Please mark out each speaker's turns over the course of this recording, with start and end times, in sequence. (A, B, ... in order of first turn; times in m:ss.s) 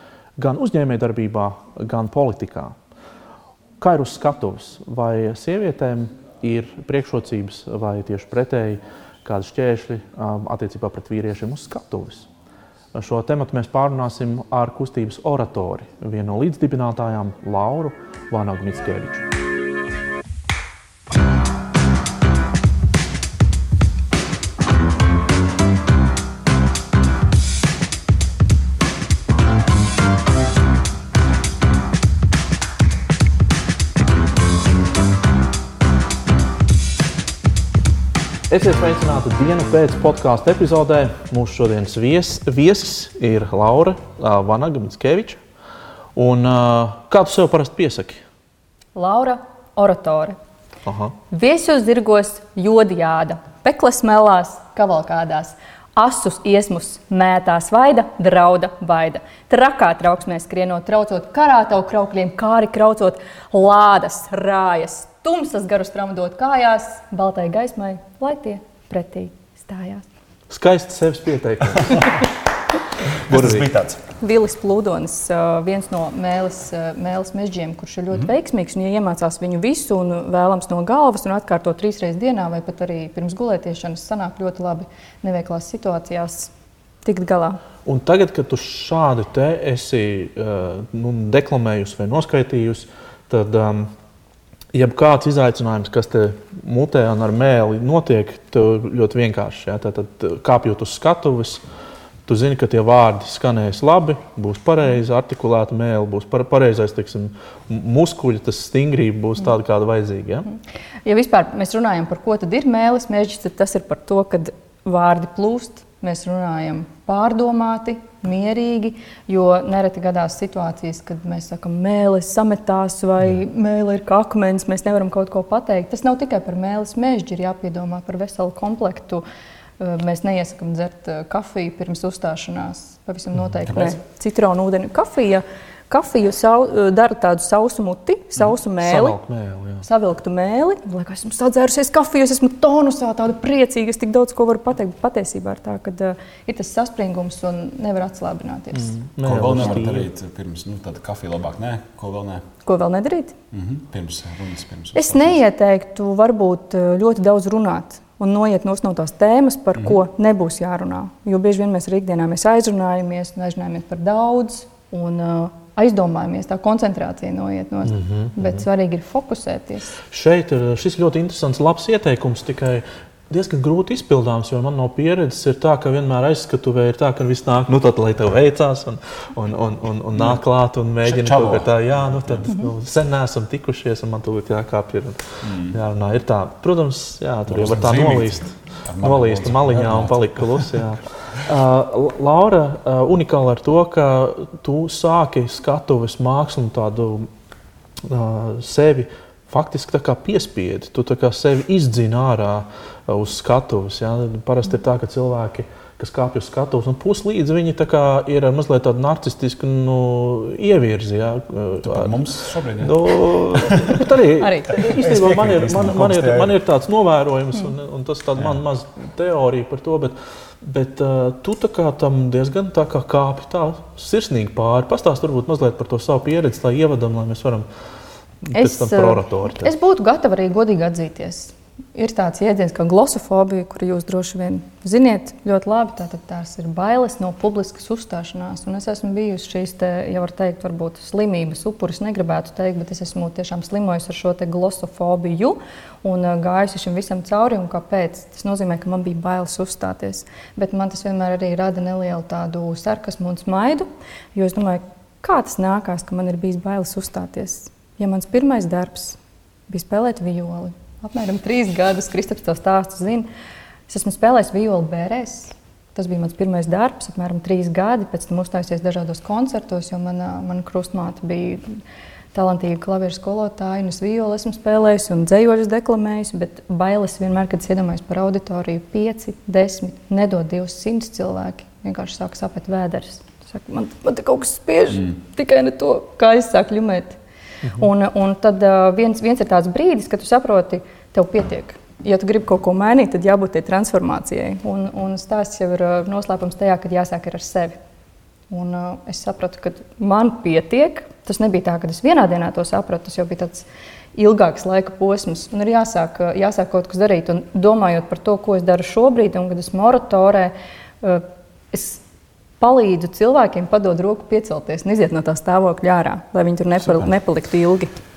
0:00.4-0:02.8 A
0:03.8-0:12.3 A
0:12.9-0:19.2 A
0:38.5-0:45.4 A
0:46.2-0:48.2 A
0:49.0-0:50.4 B
0:50.9-0:51.2 A
0:51.3-1:10.1 B
1:10.5-1:12.2 A
1:13.2-1:13.7 A
1:13.3-1:14.0 C
1:14.2-1:26.5 B
1:27.0-1:27.6 B
1:27.8-1:33.9 A
1:34.7-1:41.6 A
1:42.3-1:50.5 A
1:51.0-2:09.2 B
2:09.8-2:19.2 B
2:18.8-2:19.9 A
2:19.8-2:29.0 B
2:28.8-2:30.1 A
2:29.2-2:32.4 C
2:32.6-2:33.4 B
2:33.5-2:35.4 C
2:35.0-2:50.0 B
2:47.9-2:48.4 A
2:50.1-3:17.3 A
3:01.0-3:02.5 C
3:05.4-3:05.8 C
3:07.5-3:10.8 C
3:18.0-3:32.3 A
3:31.8-3:34.0 C
3:32.8-3:47.7 A
3:34.4-3:34.8 B
3:34.8-3:36.6 C
3:48.4-3:49.7 A
3:48.5-4:19.2 B
4:19.7-4:23.3 B
4:23.9-4:31.6 B
4:32.3-4:47.2 B
4:47.6-4:47.9 A
4:47.8-4:57.8 B
4:58.5-5:12.0 B
5:12.6-5:17.9 B